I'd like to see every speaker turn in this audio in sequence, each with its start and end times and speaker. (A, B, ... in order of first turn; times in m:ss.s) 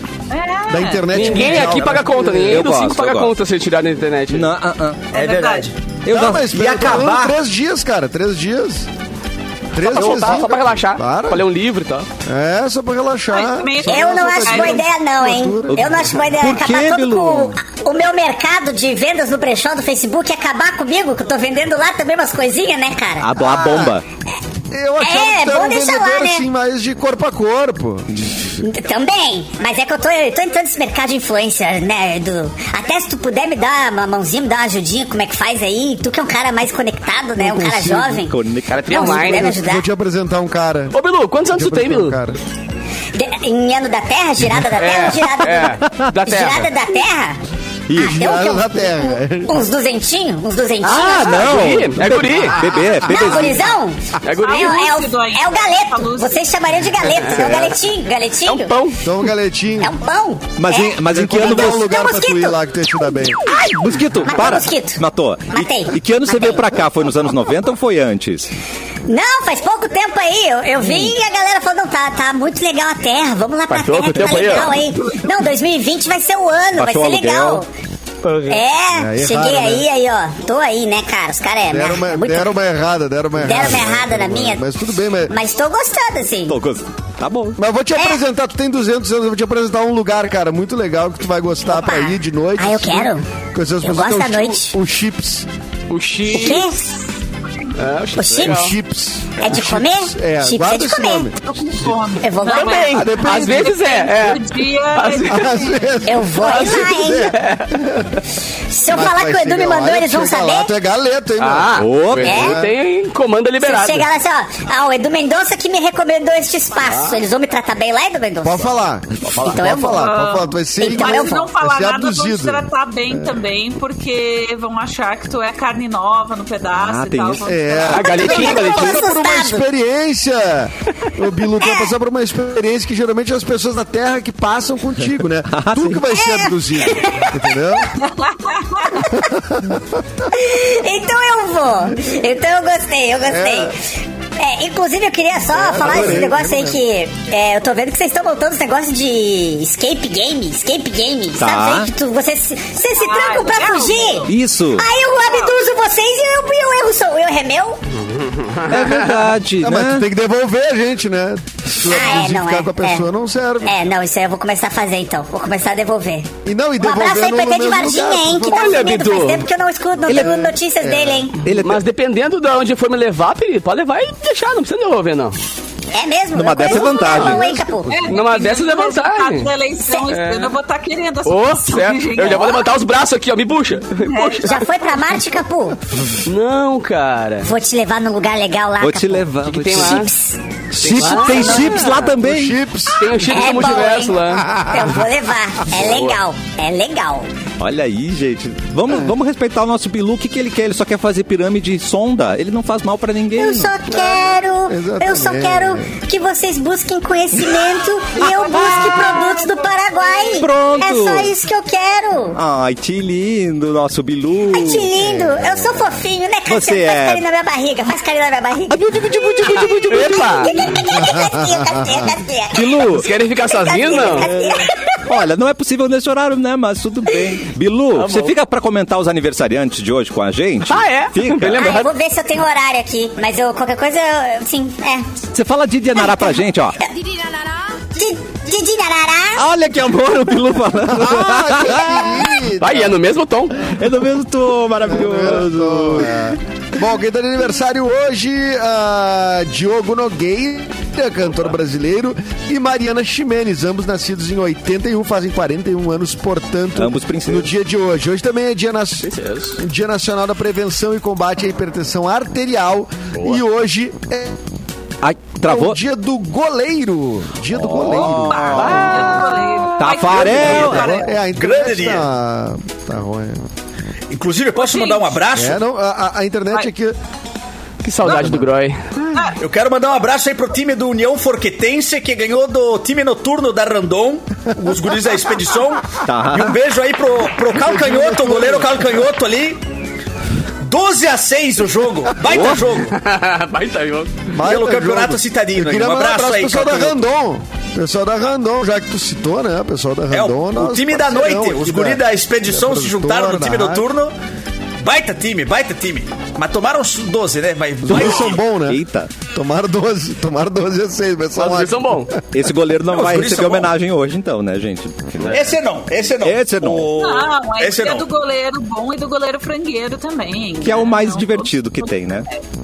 0:00.3-0:01.5 A
0:00.7-0:02.6 B
0:01.1-0:04.5 C
0:02.4-0:03.3 D
0:04.3-0:05.1 D
0:05.1-0:05.7 A
0:05.1-0:07.3 E
0:06.0-0:06.5 D
0:06.1-0:08.9 B
0:09.7-0:11.4 B
0:09.8-0:12.1 C
0:12.2-0:16.2 B
0:13.3-0:14.8 A
0:13.8-0:23.3 F
0:15.7-0:17.6 D
0:23.2-0:24.0 D
0:23.4-0:23.9 B
0:24.7-0:28.3 B
0:25.0-0:26.4 F
0:28.6-0:39.8 F
0:37.4-0:38.2 B
0:38.1-0:39.4 D
0:38.7-0:39.5 C
0:39.2-0:41.0 B
0:40.9-0:42.2 C
0:41.5-0:42.4 B
0:43.1-0:47.4 F
0:44.8-0:46.7 C
0:45.8-0:46.2 D
0:47.9-0:48.2 D
0:47.9-0:49.5 B
0:48.0-0:51.6 F
0:50.8-0:53.6 D
0:51.1-0:52.6 C
0:52.7-0:53.1 B
0:53.0-0:58.8 F
0:54.2-0:54.8 C
0:54.4-0:56.5 A
0:57.0-0:57.7 C
0:58.4-0:59.0 C
0:59.0-0:59.9 B
0:59.8-1:02.6 F
1:00.6-1:01.9 D
1:01.0-1:03.4 B
1:03.4-1:08.5 D
1:03.5-1:06.7 F
1:09.1-1:17.7 F
1:13.7-1:14.7 C
1:16.8-1:17.6 D
1:18.3-1:18.5 C
1:18.5-1:22.5 F
1:18.9-1:19.8 B
1:21.7-1:25.4 B
1:23.4-1:24.6 F
1:25.3-1:26.6 F
1:26.5-1:27.6 D
1:27.6-1:35.5 B
1:31.7-1:33.3 F
1:33.8-1:34.7 F
1:35.9-1:36.6 C
1:36.3-1:36.9 F
1:37.8-1:38.7 C
1:38.1-1:38.7 F
1:38.4-1:41.4 B
1:39.4-1:41.3 F
1:41.4-1:45.9 A
1:42.2-1:43.1 F
1:42.5-1:45.6 C
1:42.9-1:43.8 B
1:45.2-1:48.2 B
1:46.0-1:47.4 F
1:46.4-1:47.8 C
1:48.7-1:50.7 F
1:48.9-1:52.7 B
1:51.4-1:54.0 C
1:51.8-1:52.4 D
1:52.2-1:52.6 F
1:53.6-1:58.7 F
1:58.4-2:03.3 B
1:59.2-1:59.6 C
1:59.4-2:00.1 F
1:59.9-2:08.2 A
2:00.8-2:01.4 F
2:06.8-2:07.5 D
2:07.4-2:17.9 B
2:07.9-2:09.0 C
2:08.0-2:09.6 F
2:11.6-2:11.9 F
2:15.5-2:16.1 D
2:16.1-2:17.4 F
2:18.1-2:18.9 A
2:19.1-2:20.0 B
2:20.3-2:23.8 F
2:23.3-2:23.7 B
2:24.4-2:37.8 F
2:25.5-2:26.8 B
2:25.9-2:26.2 D
2:31.4-2:31.9 D
2:33.0-2:34.3 A
2:34.3-2:34.8 D
2:35.2-2:35.6 A
2:38.2-2:39.1 C
2:38.6-2:40.1 D
2:39.6-2:43.7 B
2:41.8-2:43.0 F
2:43.6-2:51.4 F
2:46.4-2:48.8 B
2:48.4-2:49.4 C
2:50.1-2:50.5 D
2:50.8-2:51.2 B
2:51.4-2:51.8 D
2:51.6-2:55.4 C
2:55.9-2:58.0 F
2:56.3-2:57.6 D
2:57.9-3:02.6 A
2:58.1-2:59.5 C
3:00.1-3:00.5 C
3:01.2-3:04.6 C
3:04.0-3:04.6 A
3:04.4-3:05.8 F
3:06.2-3:07.5 C
3:07.4-3:12.0 F
3:08.8-3:10.1 D
3:09.4-3:10.1 C
3:10.7-3:12.6 D
3:10.8-3:12.1 C
3:12.2-3:13.3 B
3:13.0-3:14.5 C
3:13.2-3:17.3 F
3:14.4-3:14.9 B
3:15.7-3:16.2 C
3:17.6-3:23.7 D
3:23.3-3:32.4 F
3:24.7-3:25.9 B
3:28.2-3:29.3 D
3:30.3-3:31.3 D
3:32.3-3:34.9 D
3:34.5-3:45.0 F
3:35.0-3:35.6 B
3:36.5-3:37.2 D
3:38.7-3:40.8 D
3:39.6-3:40.5 C
3:40.9-3:42.1 B
3:42.5-3:43.1 D
3:42.5-3:44.3 C
3:44.2-3:44.5 D
3:45.0-3:51.7 D
3:47.9-3:48.4 C
3:50.7-3:51.9 C
3:51.5-3:55.2 F
3:55.3-3:56.8 D
3:55.9-3:56.4 F
3:57.0-3:57.3 F
3:57.9-3:59.4 F
3:59.4-4:02.3 D
4:00.9-4:02.9 B
4:02.6-4:03.8 C
4:03.6-4:06.3 D
4:04.9-4:24.4 B
4:16.8-4:17.5 D
4:19.0-4:19.6 C
4:23.1-4:23.4 C
4:25.0-4:25.8 D
4:25.4-4:29.0 B
4:27.5-4:31.0 D
4:28.0-4:31.2 A
4:28.5-4:29.4 C
4:30.2-4:33.4 B
4:31.3-4:32.0 E
4:34.1-4:35.6 E
4:34.5-4:35.2 A
4:35.3-4:37.0 B
4:37.8-4:39.3 C
4:38.0-4:38.4 B
4:39.4-4:49.6 E
4:46.0-4:46.6 D
4:47.5-4:48.8 B
4:50.6-4:53.0 E
4:52.2-4:52.7 D
4:52.8-4:54.2 C
4:54.3-5:03.9 B
4:54.4-4:57.0 E
5:00.1-5:04.1 E
5:04.8-5:08.4 E
5:07.8-5:12.2 B
5:08.6-5:09.1 D
5:11.4-5:12.1 C
5:12.3-5:15.6 D
5:12.9-5:13.7 E
5:15.3-5:18.1 E
5:16.2-5:16.9 D
5:17.0-5:22.4 A
5:20.6-5:22.3 D